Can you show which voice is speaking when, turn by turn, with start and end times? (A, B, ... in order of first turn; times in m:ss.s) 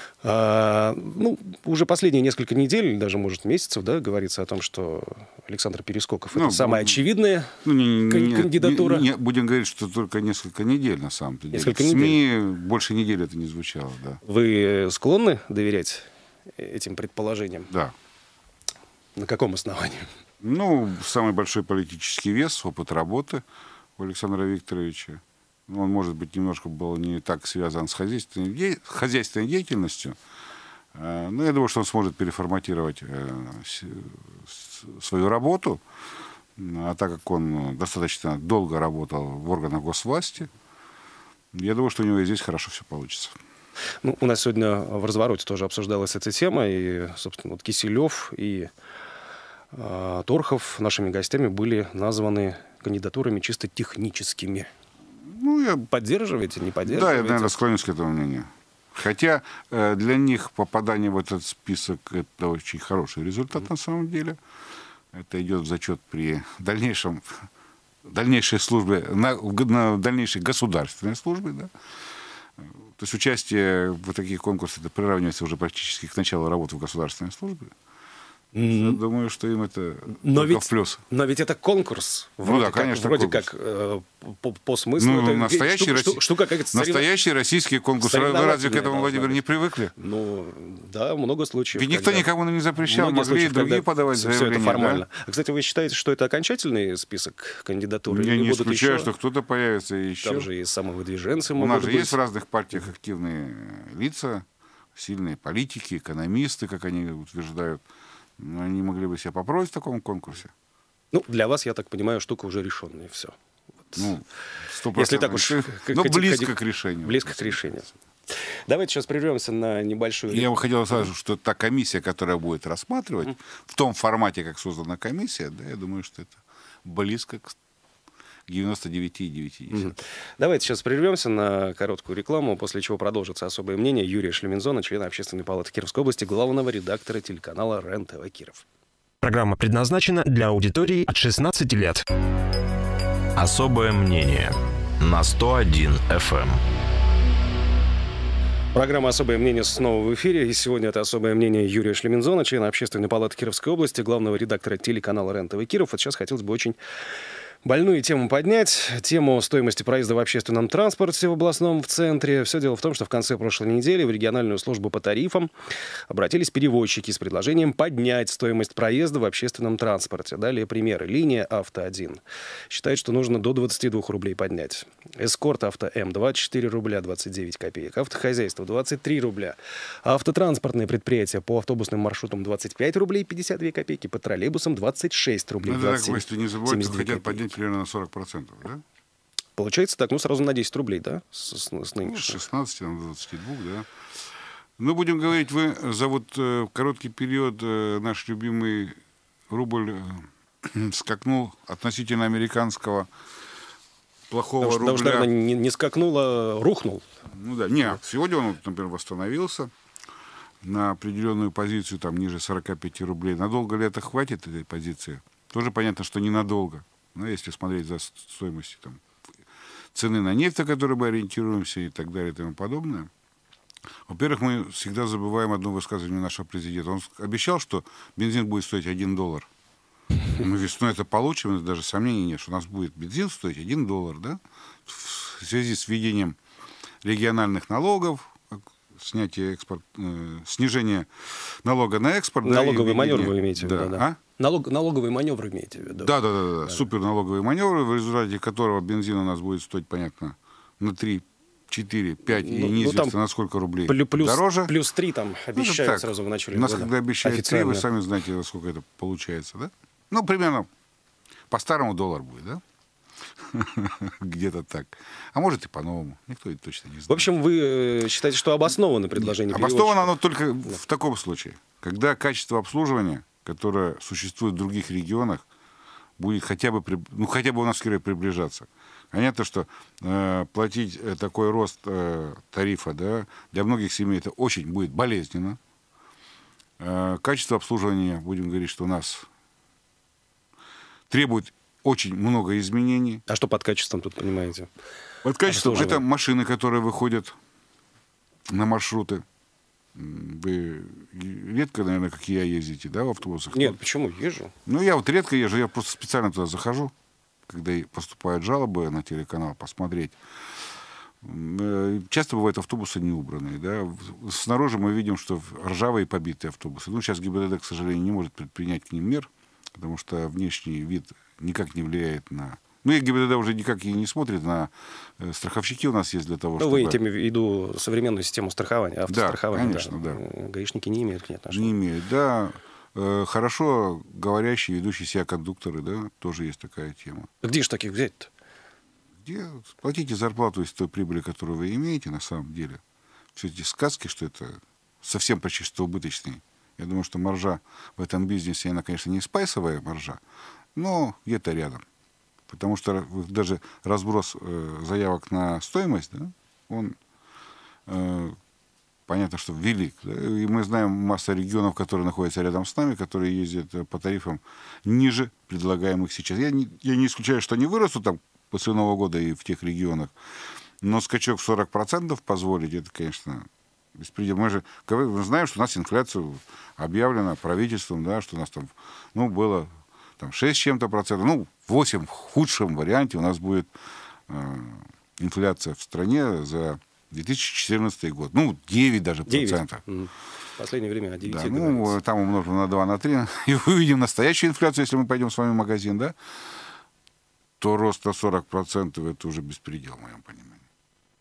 0:00.2-0:09.1 A
0:06.3-0:07.0 B
0:07.6-0:14.2 B
0:11.5-0:12.2 A
0:14.2-0:17.7 A
0:19.2-0:20.1 A
0:20.4-0:23.4 B
0:24.0-0:30.2 B
0:30.9-0:35.8 B
0:36.6-0:40.5 B
0:41.5-0:43.4 B
0:44.0-0:48.7 A
0:49.7-0:54.7 A
0:55.2-0:55.9 B
0:55.9-0:57.6 A
0:56.8-1:04.4 B
1:05.1-1:07.4 B
1:08.0-1:11.7 B
1:12.6-1:17.7 B
1:18.5-1:19.0 A
1:18.7-1:21.0 B
1:20.2-1:27.1 A
1:22.4-1:23.5 B
1:25.0-1:29.9 B
1:28.0-1:29.4 A
1:30.0-1:32.3 A
1:31.7-1:35.0 B
1:32.8-1:39.1 A
1:38.1-1:40.5 B
1:40.2-1:42.2 A
1:41.6-1:47.8 B
1:48.4-1:50.5 B
1:51.1-1:53.4 A
1:54.0-1:57.6 B
1:54.9-2:00.5 A
2:00.3-2:07.6 B
2:08.5-2:09.9 B
2:09.7-2:18.6 A
2:19.2-2:22.0 C
2:23.4-2:26.6 D
2:28.7-2:36.8 A
2:37.6-2:45.5 A
2:46.1-3:07.4 A
3:05.6-3:08.8 B
3:09.6-3:12.4 A
3:12.0-3:13.9 B
3:14.8-3:19.0 B
3:19.5-3:23.1 B
3:24.3-3:25.3 B
3:24.6-3:27.0 A
3:27.3-3:29.7 B
3:30.6-3:39.0 B
3:39.9-3:43.1 B
3:44.1-3:49.5 B
3:50.3-3:56.4 B
3:57.0-4:04.2 B
4:02.4-4:06.8 A
4:05.9-4:14.7 B
4:12.3-4:13.2 A
4:13.9-4:17.8 A
4:15.5-4:20.7 B
4:21.5-4:22.6 B
4:23.5-4:27.3 B
4:27.1-4:30.1 A
4:29.2-4:35.4 B
4:36.2-4:45.6 B
4:46.8-4:49.3 B
4:51.1-4:53.2 B
4:53.3-4:54.7 A
4:55.2-4:57.4 B
4:55.4-4:56.0 A
4:58.5-4:59.2 B
4:59.9-5:03.8 B
5:03.5-5:04.5 A
5:04.6-5:06.9 B
5:07.5-5:10.2 B
5:11.2-5:27.0 B
5:26.6-5:31.7 A
5:29.1-5:30.2 B
5:31.5-5:37.3 B
5:37.4-5:38.3 A
5:39.2-5:42.8 B
5:43.3-5:50.2 B
5:50.7-5:51.8 B
5:52.5-5:57.0 B
5:57.9-5:58.4 B
5:59.1-6:10.1 B
6:10.8-6:23.7 B
6:24.3-6:29.8 B
6:29.3-6:32.0 A
6:31.2-6:36.1 B
6:37.6-6:40.6 B